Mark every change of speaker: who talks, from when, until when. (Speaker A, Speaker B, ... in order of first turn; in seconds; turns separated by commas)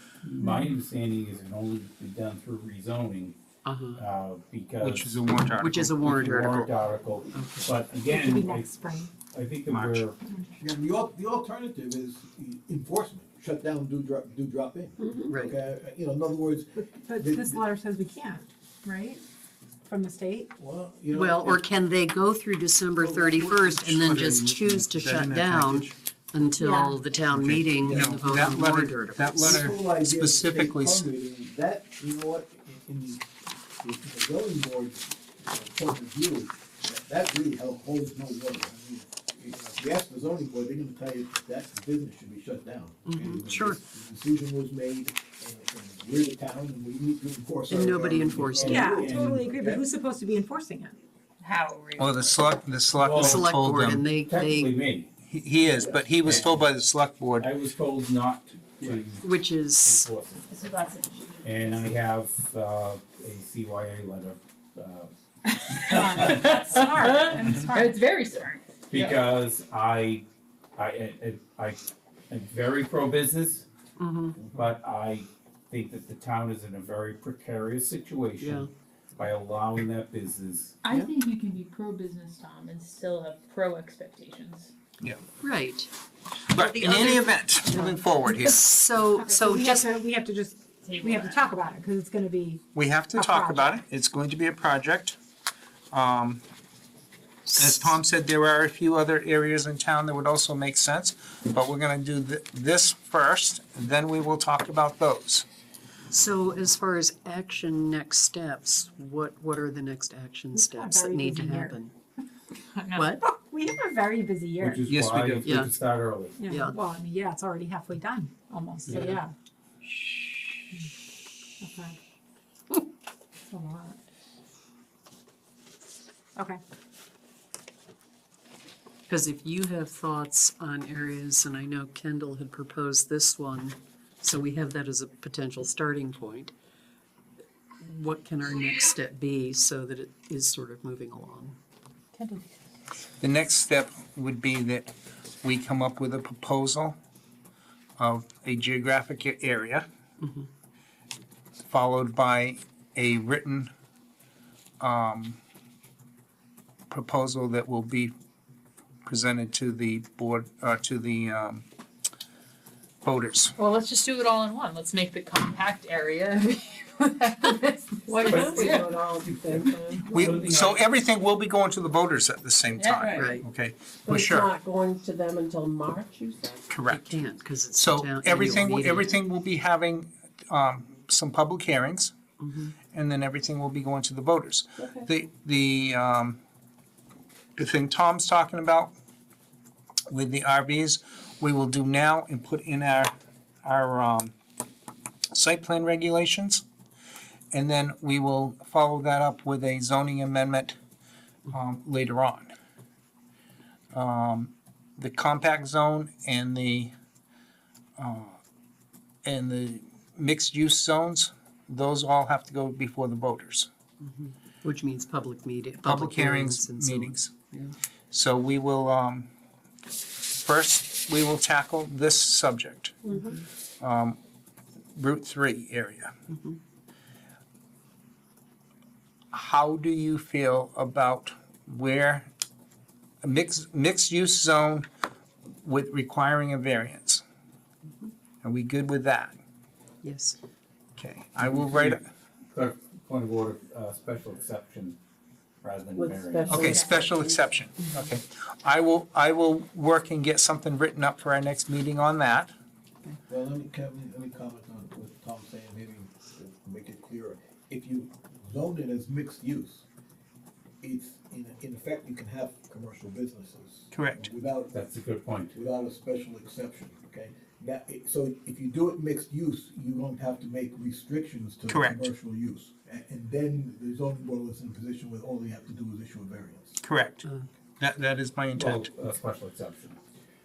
Speaker A: 0.2-3.3, Speaker B: 3.6-4.0, Speaker A: 3.9-5.2, Speaker C: 4.8-6.5, Speaker B: 5.6-6.7, Speaker A: 6.0-10.2, Speaker B: 7.3-7.7, Speaker D: 8.1-9.1, Speaker C: 9.7-10.1, Speaker E: 10.6-17.6, Speaker F: 15.0-15.3, Speaker B: 15.3-15.6, Speaker D: 17.1-19.2, Speaker D: 19.9-20.5, Speaker E: 20.6-21.6, Speaker B: 21.1-29.7, Speaker E: 23.0-24.2, Speaker C: 23.9-25.9, Speaker D: 26.6-27.1, Speaker C: 27.3-31.1, Speaker E: 27.8-28.4, Speaker E: 29.4-33.3, Speaker E: 33.8-49.6, Speaker B: 43.0-43.8, Speaker B: 47.7-49.2, Speaker D: 48.6-51.0, Speaker A: 49.0-49.6, Speaker G: 51.4-52.5, Speaker C: 52.0-54.0, Speaker A: 53.0-55.1, Speaker B: 53.2-54.7, Speaker C: 55.2-57.5, Speaker E: 55.7-56.0, Speaker A: 56.2-56.7, Speaker A: 57.4-59.3, Speaker B: 59.2-60.1, Speaker A: 59.8-60.4, Speaker G: 60.5-61.8, Speaker A: 61.4-65.1, Speaker G: 65.5-68.7, Speaker A: 65.8-66.4, Speaker D: 65.9-68.0, Speaker A: 68.9-73.7, Speaker E: 68.9-69.2, Speaker B: 74.0-74.3, Speaker A: 74.4-80.8, Speaker B: 78.4-78.7, Speaker G: 80.8-84.7, Speaker B: 85.4-85.9, Speaker C: 86.5-88.6, Speaker B: 86.7-89.9, Speaker D: 89.1-92.6, Speaker G: 90.8-91.5, Speaker C: 92.7-95.2, Speaker D: 93.1-93.7, Speaker C: 95.9-96.4, Speaker B: 97.5-97.9, Speaker C: 97.5-105.5, Speaker B: 106.1-111.9, Speaker D: 110.5-111.8, Speaker G: 112.7-113.0, Speaker B: 112.9-113.2, Speaker D: 113.0-114.8, Speaker A: 114.6-116.3, Speaker C: 114.9-115.5, Speaker B: 115.4-115.7, Speaker D: 116.4-119.3, Speaker B: 116.5-116.8, Speaker A: 118.9-119.2, Speaker B: 118.9-119.2, Speaker D: 121.6-121.9, Speaker D: 123.5-124.0, Speaker B: 129.1-136.5, Speaker B: 137.8-141.6, Speaker G: 142.1-142.4, Speaker C: 143.2-144.9, Speaker C: 145.4-147.0, Speaker C: 148.0-149.8, Speaker B: 150.2-150.5, Speaker C: 151.6-153.7, Speaker C: 154.8-155.4, Speaker C: 156.9-158.1, Speaker C: 159.1-161.6, Speaker C: 163.0-163.5, Speaker G: 163.6-168.9, Speaker F: 168.1-170.5, Speaker A: 168.3-170.9, Speaker C: 170.1-174.5, Speaker G: 172.7-173.4, Speaker B: 173.1-173.4, Speaker F: 174.0-176.7, Speaker C: 176.7-177.2, Speaker B: 176.9-179.1, Speaker C: 177.8-182.1, Speaker B: 182.4-182.7, Speaker C: 182.9-186.4, Speaker F: 184.8-185.1, Speaker C: 187.6-188.9, Speaker C: 190.1-193.1, Speaker C: 193.6-194.3, Speaker C: 195.3-196.6, Speaker C: 197.5-200.8, Speaker C: 201.5-202.5, Speaker C: 203.9-206.9, Speaker C: 208.0-208.4, Speaker C: 209.2-213.7, Speaker B: 214.6-217.7, Speaker C: 215.8-217.3, Speaker C: 218.1-219.3, Speaker C: 220.4-223.0, Speaker F: 223.1-223.4, Speaker C: 223.8-224.2, Speaker C: 224.9-226.1, Speaker C: 229.3-232.3, Speaker C: 233.2-234.8, Speaker C: 235.6-237.2, Speaker C: 238.4-239.4, Speaker B: 240.0-240.4, Speaker C: 241.0-242.1, Speaker A: 241.4-242.0, Speaker A: 242.5-245.0, Speaker A: 245.6-246.8, Speaker F: 246.0-247.4, Speaker C: 246.5-252.5, Speaker E: 253.3-259.9, Speaker E: 260.8-264.8, Speaker C: 263.9-264.2, Speaker A: 264.7-265.5, Speaker E: 265.5-276.8, Speaker C: 271.7-272.0, Speaker C: 276.8-277.2, Speaker C: 277.8-278.9, Speaker A: 278.5-280.0